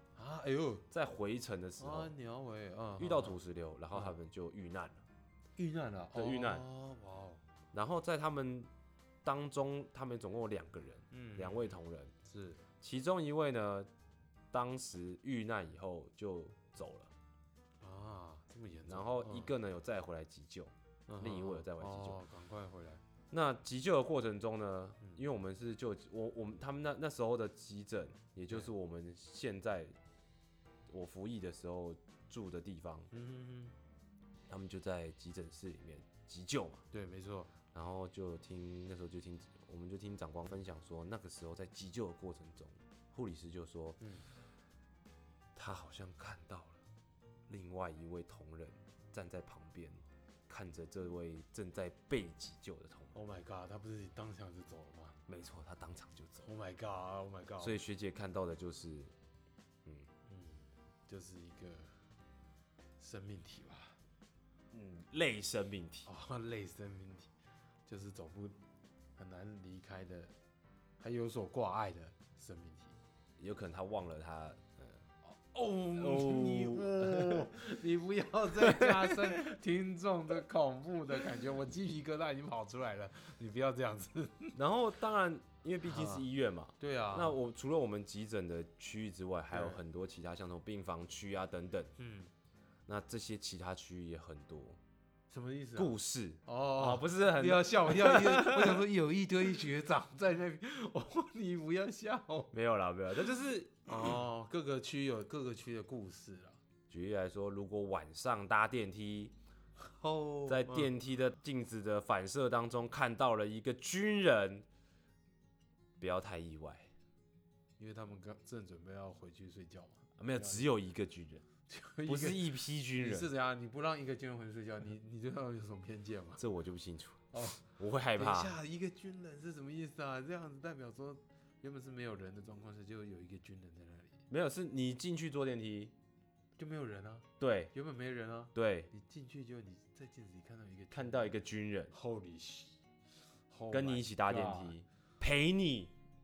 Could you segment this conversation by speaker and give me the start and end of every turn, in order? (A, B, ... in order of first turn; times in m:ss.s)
0:00.2-0:00.8 A
0:00.9-0:02.1 B
0:01.8-0:03.4 A
0:03.0-0:05.0 B
0:05.6-0:07.4 A
0:06.1-0:06.6 B
0:07.7-0:08.7 B
0:09.2-0:12.1 B
0:11.1-0:12.6 A
0:12.8-0:13.9 B
0:14.5-0:17.1 B
0:17.8-0:19.5 A
0:18.9-0:22.2 B
0:21.1-0:23.0 A
0:23.3-0:30.0 B
0:30.9-0:33.1 B
0:33.1-0:33.7 A
0:34.5-0:36.8 B
0:36.9-0:37.5 A
0:37.7-0:44.0 B
0:44.0-0:44.2 A
0:45.5-0:46.8 B
0:47.5-0:53.2 B
0:53.1-0:55.2 A
0:55.3-0:56.5 B
0:56.4-0:57.8 A
0:57.6-0:59.1 B
1:00.3-1:01.9 A
1:03.0-1:04.0 A
1:04.7-1:06.1 B
1:06.0-1:07.3 A
1:07.9-1:08.6 A
1:09.2-1:10.3 A
1:11.0-1:12.9 A
1:13.4-1:14.6 B
1:15.2-1:24.6 A
1:16.0-1:17.5 B
1:18.6-1:19.5 B
1:24.5-1:31.9 B
1:25.8-1:26.2 A
1:26.8-1:27.4 A
1:29.5-1:29.8 A
1:32.0-1:32.3 A
1:32.9-1:34.8 B
1:35.3-1:42.5 A
1:35.8-1:38.8 B
1:42.5-1:44.2 B
1:43.9-1:46.6 A
1:46.9-1:49.3 B
1:49.8-1:50.9 A
1:50.5-1:54.6 B
1:56.0-1:56.9 B
1:57.8-2:00.6 A
2:00.2-2:01.4 B
2:01.7-2:06.4 A
2:02.0-2:03.3 B
2:06.4-2:08.6 B
2:07.3-2:14.2 A
2:14.3-2:15.9 B
2:16.6-2:21.4 A
2:17.4-2:17.7 B
2:18.5-2:18.9 B
2:20.9-2:21.9 B
2:21.9-2:22.8 A
2:23.5-2:24.7 A
2:23.7-2:25.9 B